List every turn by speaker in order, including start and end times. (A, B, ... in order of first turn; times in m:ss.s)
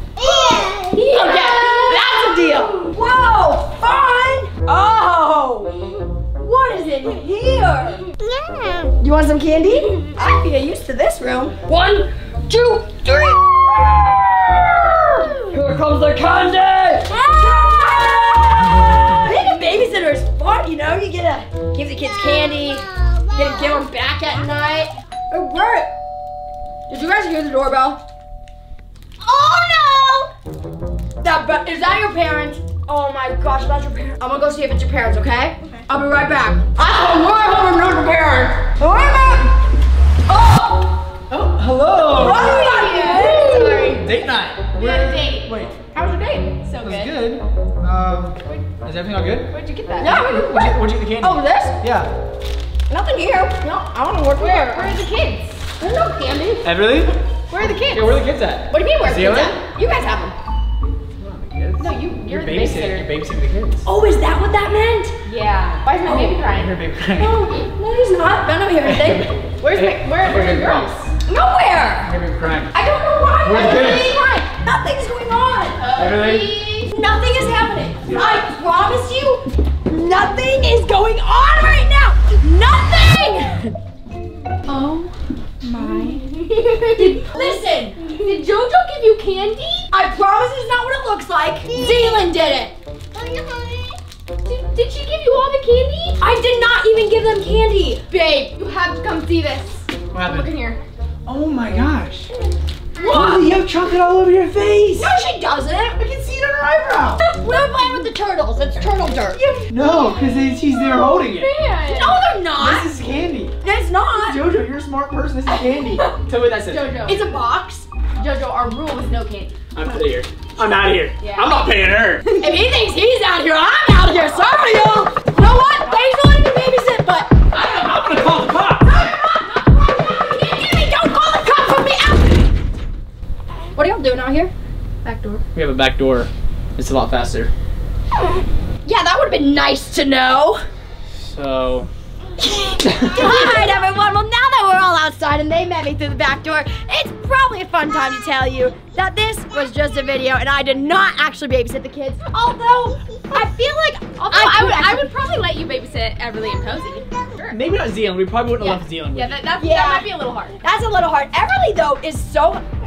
0:00.2-0:01.9 A
0:00.3-0:08.0 B
0:08.2-0:08.9 A
0:09.0-0:25.9 B
0:17.1-0:19.2 A
0:22.3-0:23.8 A
0:26.9-0:28.0 B
0:29.2-0:30.3 A
0:31.2-0:39.5 B
0:40.3-0:41.0 B
0:41.3-0:42.7 C
0:42.1-0:44.0 B
0:42.2-0:44.1 D
0:44.0-0:45.8 C
0:44.8-0:45.5 D
0:46.0-0:46.3 B
0:46.0-0:47.2 D
0:46.8-0:49.5 C
0:49.5-0:50.5 D
0:50.0-0:51.8 B
0:50.3-0:52.1 C
0:52.9-0:54.9 B
0:54.4-0:55.8 D
0:55.8-0:56.6 B
0:56.6-0:57.2 C
0:57.5-0:58.2 D
0:57.9-0:59.6 C
0:58.7-1:00.4 B
1:01.2-1:03.9 C
1:01.8-1:03.1 D
1:03.9-1:05.1 B
1:05.2-1:06.7 D
1:06.1-1:06.4 B
1:06.4-1:07.5 C
1:07.2-1:09.3 B
1:08.8-1:10.9 C
1:09.6-1:11.1 D
1:11.2-1:12.2 B
1:12.0-1:12.7 C
1:12.7-1:23.7 B
1:13.4-1:14.2 C
1:15.8-1:16.6 D
1:16.0-1:16.5 C
1:18.1-1:18.3 C
1:24.7-1:25.1 B
1:25.6-1:26.3 B
1:25.8-1:27.4 D
1:26.8-1:28.2 B
1:28.1-1:29.9 D
1:29.9-1:32.7 B
1:31.7-1:32.2 A
1:33.1-1:34.0 A
1:34.4-1:36.2 D
1:36.2-1:38.1 B
1:38.1-1:40.8 D
1:40.1-1:40.5 C
1:41.3-1:42.3 C
1:43.0-1:45.2 C
1:43.0-1:43.5 B
1:45.0-1:46.0 B
1:46.0-1:47.3 C
1:47.2-1:49.5 B
1:49.4-1:52.2 D
1:49.7-1:51.5 C
1:51.8-1:52.9 B
1:52.6-1:53.6 C
1:53.6-1:54.4 B
1:54.2-1:57.0 C
1:56.7-1:57.2 D
1:57.0-1:57.9 B
1:58.1-1:59.6 D
1:59.7-2:02.3 C
2:01.2-2:01.6 D
2:02.4-2:07.3 B
2:07.5-2:09.0 C
2:08.8-2:12.5 B
2:13.8-2:14.5 B
2:15.0-2:15.4 D
2:15.6-2:17.5 C
2:18.8-2:20.6 B
2:21.2-2:21.9 C
2:22.4-2:32.5 B
2:22.8-2:23.5 C
2:32.3-2:33.4 D
2:33.3-2:35.1 B
2:34.2-2:37.6 D
2:37.5-2:39.4 C
2:38.6-2:40.6 D
2:39.6-2:42.6 B